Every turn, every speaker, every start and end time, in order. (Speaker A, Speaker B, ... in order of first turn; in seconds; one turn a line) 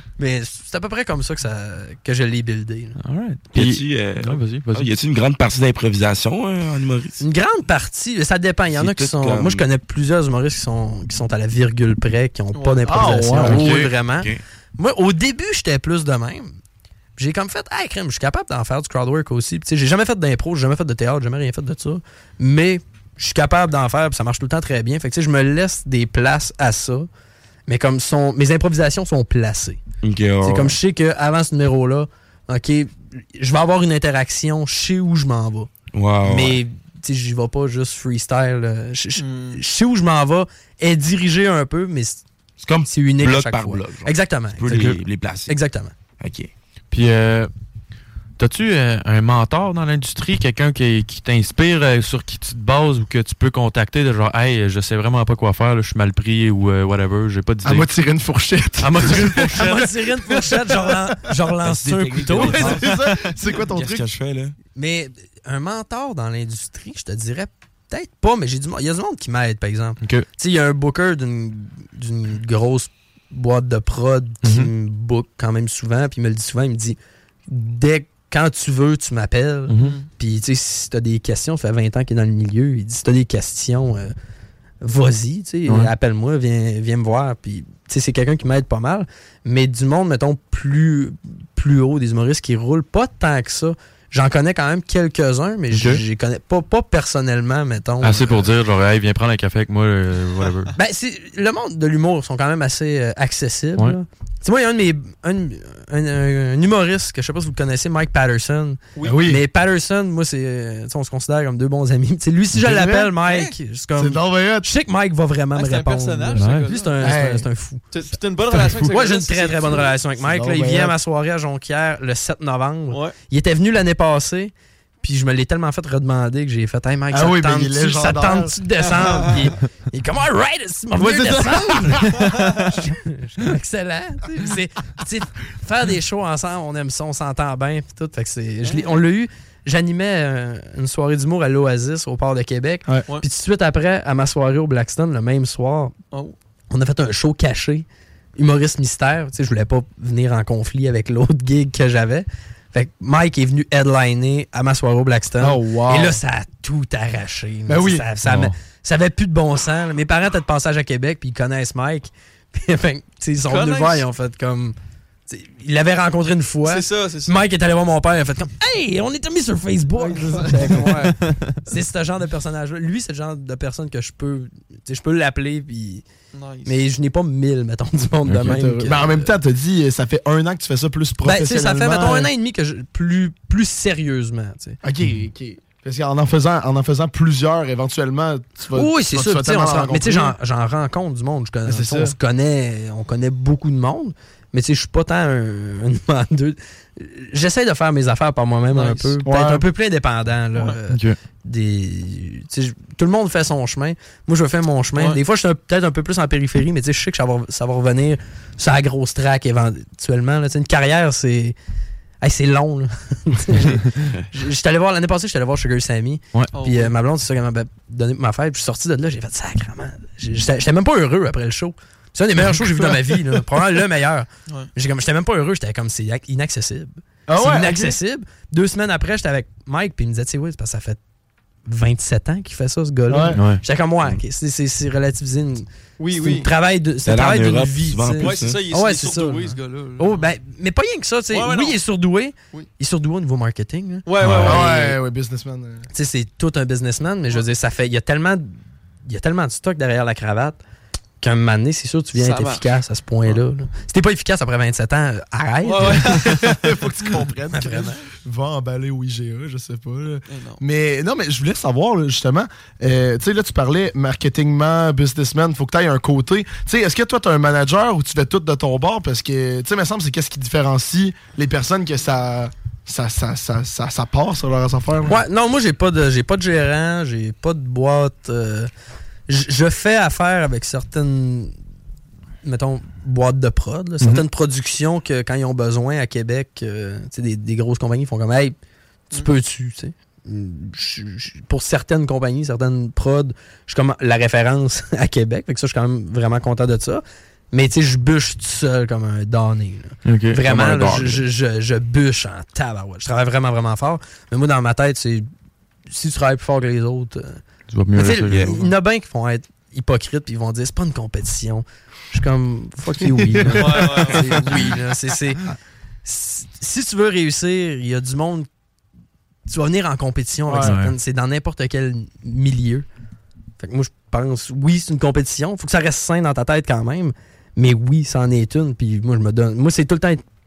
Speaker A: 0.2-3.0
Speaker B: 3.0-4.9
Speaker C: 3.5-7.2
Speaker A: 7.2-16.6
Speaker C: 8.7-9.7
Speaker D: 12.5-13.0
Speaker E: 12.9-13.7
Speaker B: 13.4-13.9
Speaker C: 14.1-14.4
Speaker A: 17.2-27.1
Speaker A: 27.7-29.8
Speaker C: 30.0-30.8
Speaker A: 30.4-35.7
Speaker C: 35.9-36.6
Speaker A: 36.2-42.2
Speaker D: 39.2-39.6
Speaker C: 42.6-45.6
Speaker A: 42.9-45.9
Speaker C: 46.2-46.5
Speaker B: 46.9-47.5
Speaker B: 48.4-57.9
Speaker E: 57.6-59.8
Speaker B: 58.8-59.9
Speaker A: 59.0-62.8
Speaker E: 60.3-61.1
Speaker C: 61.6-63.0
Speaker E: 62.4-64.1
Speaker C: 63.7-64.5
Speaker A: 64.8-77.0
Speaker B: 70.0-70.3
Speaker B: 74.4-74.7
Speaker A: 77.5-84.1
Speaker B: 79.7-80.0
Speaker D: 79.8-80.1
Speaker A: 84.8-98.5
Speaker B: 85.7-85.9
Speaker B: 95.7-96.0
Speaker B: 98.0-100.7
Speaker A: 100.8-117.8
Speaker D: 109.0-109.3
Speaker E: 109.0-109.4
Speaker E: 112.5-113.1
Speaker D: 113.3-113.5
Speaker E: 114.0-114.7
Speaker D: 115.5-117.0
Speaker B: 116.3-116.7
Speaker E: 117.0-117.5
Speaker D: 117.9-119.9
Speaker A: 118.5-145.9
Speaker E: 120.2-121.0
Speaker D: 122.9-123.2
Speaker E: 127.1-128.6
Speaker D: 128.9-129.3
Speaker E: 130.9-132.5
Speaker D: 132.2-132.6
Speaker D: 138.6-139.0
Speaker A: 146.7-147.8
Speaker A: 148.4-164.8
Speaker E: 155.4-156.2
Speaker E: 157.7-158.1
Speaker B: 158.2-158.6
Speaker D: 163.4-164.1
Speaker A: 165.3-176.0
Speaker D: 166.7-167.4
Speaker E: 170.1-171.0
Speaker B: 171.0-171.6
Speaker D: 176.3-176.8
Speaker A: 176.7-179.3
Speaker B: 178.3-178.6
Speaker E: 178.4-182.3
Speaker A: 181.2-184.8
Speaker E: 184.8-190.4
Speaker A: 188.7-211.6
Speaker E: 191.7-192.2
Speaker D: 198.7-199.1
Speaker E: 199.2-199.7
Speaker B: 200.9-201.2
Speaker A: 212.2-231.0
Speaker D: 216.5-216.9
Speaker E: 222.4-223.4
Speaker E: 227.3-228.0
Speaker A: 231.7-244.9
Speaker E: 233.1-233.4
Speaker B: 233.3-233.6
Speaker D: 236.0-236.5
Speaker C: 237.0-238.6
Speaker D: 238.2-240.3
Speaker D: 241.3-241.8
Speaker D: 244.1-244.8
Speaker B: 244.2-244.6
Speaker E: 244.4-245.9
Speaker A: 245.9-248.5
Speaker A: 249.1-250.6
Speaker A: 251.2-256.2
Speaker D: 252.2-252.7
Speaker D: 255.6-256.6
Speaker E: 255.8-275.2
Speaker A: 257.5-258.1
Speaker D: 260.3-260.6
Speaker A: 275.1-278.7
Speaker A: 279.3-281.5
Speaker A: 282.4-288.6
Speaker A: 289.1-305.3
Speaker B: 300.1-300.4
Speaker C: 300.4-301.2
Speaker A: 305.9-307.4
Speaker B: 307.7-308.6
Speaker A: 307.9-315.4
Speaker C: 308.3-308.5
Speaker E: 313.0-314.6
Speaker D: 313.6-314.4
Speaker A: 316.1-318.5
Speaker A: 319.5-322.9
Speaker E: 320.5-320.7
Speaker B: 320.6-320.9
Speaker A: 323.6-330.2